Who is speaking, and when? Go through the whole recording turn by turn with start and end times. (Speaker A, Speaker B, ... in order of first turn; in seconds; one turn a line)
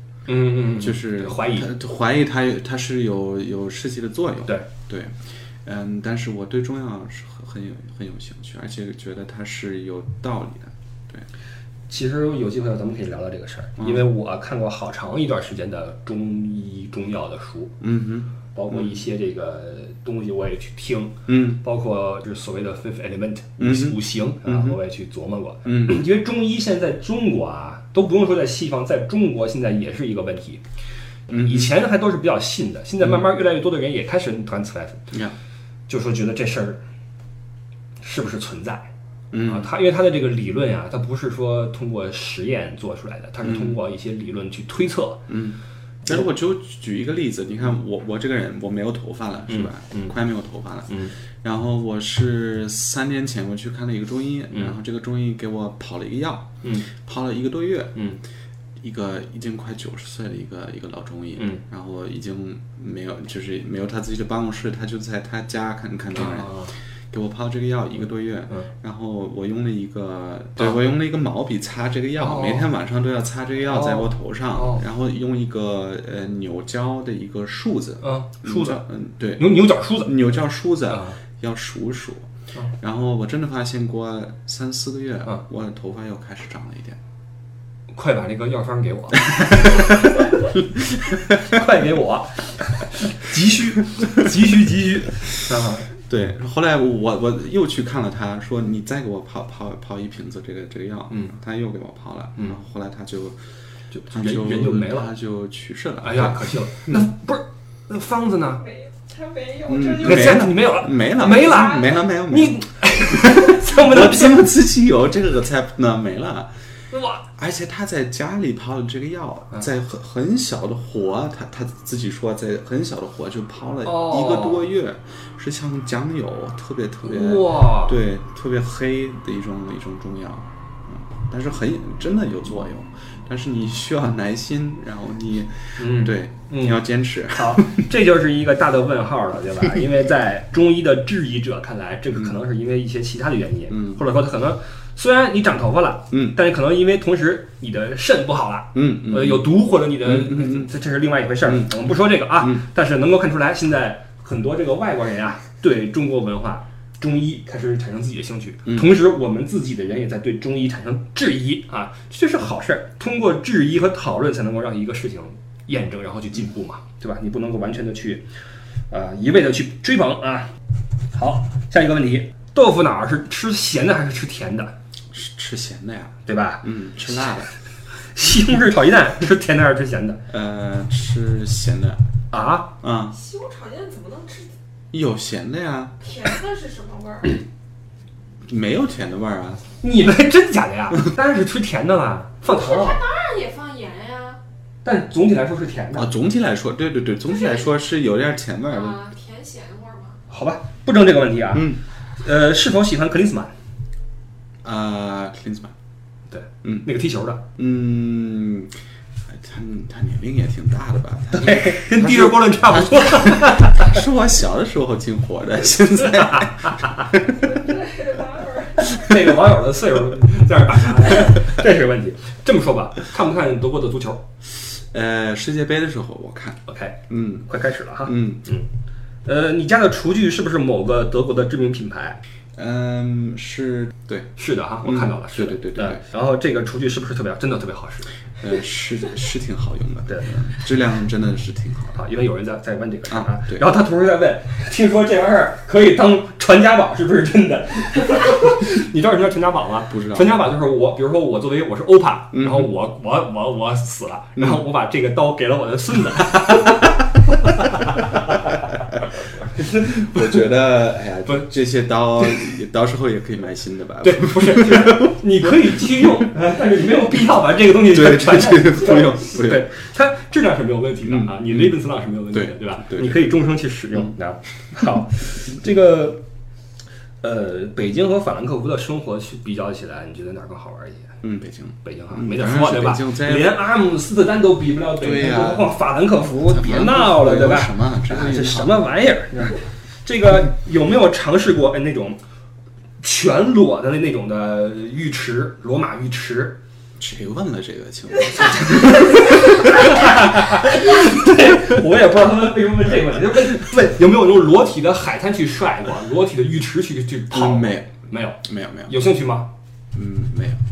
Speaker A: 0.3-1.7
Speaker B: 0.7-11.3
Speaker A: 11.9-17.8
Speaker B: 13.8-14.1
Speaker B: 17.8-19.1
Speaker A: 18.6-30.6
Speaker B: 21.3-21.6
Speaker B: 23.6-24.8
Speaker B: 25.6-26.1
Speaker B: 31.3-31.7
Speaker A: 31.3-35.1
Speaker A: 35.9-36.8
Speaker A: 38.0-38.9
Speaker B: 39.3-39.7
Speaker A: 39.5-45.2
Speaker B: 43.4-43.8
Speaker B: 45.3-58.0
Speaker A: 49.5-50.1
Speaker A: 50.9-51.1
Speaker A: 54.5-54.8
Speaker A: 56.6-56.9
Speaker B: 58.8-66.6
Speaker A: 61.4-61.6
Speaker A: 66.1-66.7
Speaker B: 67.1-87.0
Speaker A: 72.2-72.7
Speaker A: 73.7-74.8
Speaker A: 78.0-78.8
Speaker A: 79.4-80.2
Speaker A: 80.9-81.2
Speaker A: 87.9-95.9
Speaker B: 89.3-90.0
Speaker B: 91.0-91.5
Speaker B: 96.0-103.4
Speaker A: 101.1-101.3
Speaker A: 103.9-105.1
Speaker B: 104.1-107.0
Speaker A: 106.0-108.6
Speaker C: 108.6-110.5
Speaker B: 109.7-116.5
Speaker A: 110.0-114.5
Speaker C: 111.4-111.9
Speaker A: 116.9-117.2
Speaker B: 117.4-137.8
Speaker A: 123.8-124.7
Speaker A: 127.0-128.0
Speaker A: 135.8-168.3
Speaker B: 143.7-144.0
Speaker B: 146.1-146.4
Speaker B: 148.8-149.5
Speaker B: 150.0-150.7
Speaker B: 151.5-151.7
Speaker A: 168.9-170.5
Speaker A: 171.1-174.8
Speaker B: 175.1-177.5
Speaker A: 176.3-176.7
Speaker A: 178.1-180.2
Speaker B: 180.3-182.0
Speaker A: 182.3-182.7
Speaker B: 182.8-183.2
Speaker C: 183.1-184.5
Speaker B: 184.9-186.0
Speaker C: 186.0-187.4
Speaker B: 188.5-189.6
Speaker A: 189.8-193.0
Speaker C: 192.5-194.4
Speaker A: 194.8-196.1
Speaker B: 195.9-199.0
Speaker C: 197.3-197.6
Speaker C: 198.7-200.2
Speaker A: 200.3-203.5
Speaker B: 201.5-201.8
Speaker B: 204.6-205.7
Speaker A: 206.3-207.4
Speaker B: 207.6-208.8
Speaker B: 209.3-217.6
Speaker A: 211.3-214.0
Speaker A: 216.1-217.1
Speaker C: 217.4-219.2
Speaker A: 218.8-224.2
Speaker B: 224.6-227.5
Speaker A: 226.7-228.7
Speaker B: 228.0-228.5
Speaker A: 229.2-232.2
Speaker B: 232.6-234.3
Speaker A: 234.4-238.1
Speaker B: 234.8-236.0
Speaker B: 238.4-242.0
Speaker A: 241.9-258.8
Speaker B: 243.1-243.6
Speaker B: 249.9-250.3
Speaker B: 252.3-252.7
Speaker A: 259.5-260.4
Speaker B: 259.6-266.1
Speaker A: 264.0-276.2
Speaker B: 267.9-269.7
Speaker B: 271.0-271.8
Speaker B: 272.3-273.3
Speaker A: 277.2-281.1
Speaker B: 281.2-283.6
Speaker A: 281.8-292.2
Speaker B: 285.0-285.8
Speaker B: 286.5-288.9
Speaker A: 293.0-296.6
Speaker B: 297.0-300.7
Speaker A: 298.4-309.5
Speaker B: 307.3-308.9
Speaker B: 309.9-310.6